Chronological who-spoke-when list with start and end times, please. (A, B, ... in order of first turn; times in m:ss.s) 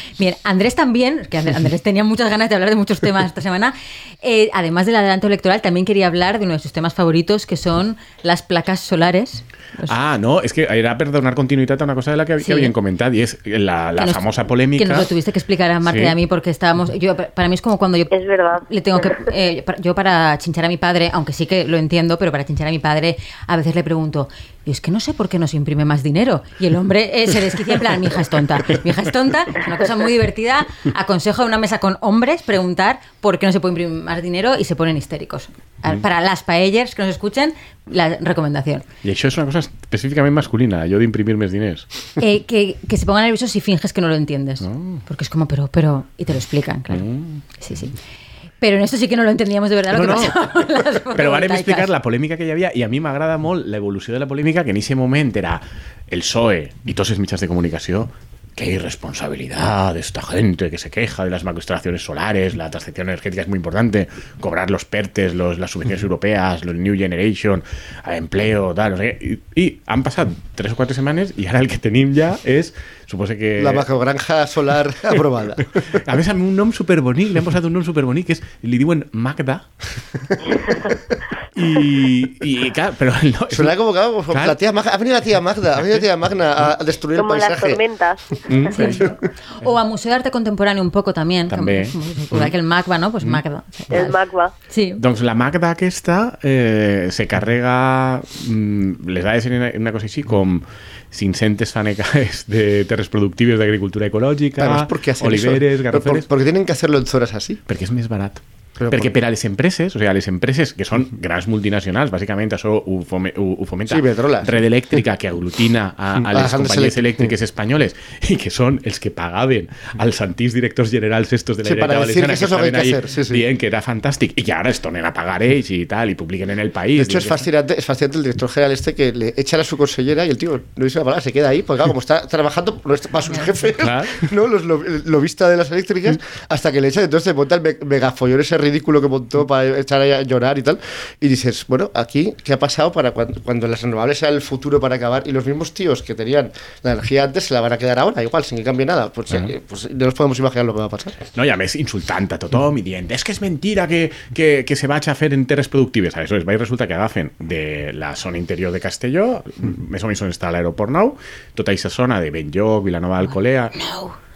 0:00.2-0:10.0 A
0:09.8-0:15.1 B
0:12.4-0:12.7 A
0:14.0-0:38.8 A
0:15.8-0:16.2 B
0:18.1-0:19.2 C
0:39.0-0:41.9 B
0:42.2-0:47.0 A
0:44.6-0:45.0 B
0:46.9-0:47.4 B
0:47.6-0:47.9 A
0:48.6-0:51.9 A
0:49.9-0:50.4 B
0:51.1-1:13.8 B
1:13.6-1:15.8 D
1:15.8-1:19.6 B
1:21.5-1:23.8 B
1:23.5-1:27.8 D
1:24.3-1:24.6 B
1:27.1-1:28.7 C
1:28.5-1:29.1 B
1:28.7-1:35.0 A
1:31.5-1:32.5 B
1:33.9-1:34.5 C
1:35.0-1:46.3 B
1:44.6-1:47.6 D
1:47.7-2:07.4 B
1:48.8-1:49.1 D
1:53.9-1:54.6 D
1:56.2-1:57.3 D
2:01.6-2:03.4 D
2:07.0-2:31.2 D
2:13.8-2:14.3 B
2:31.3-2:43.8 B
2:43.8-2:44.2 A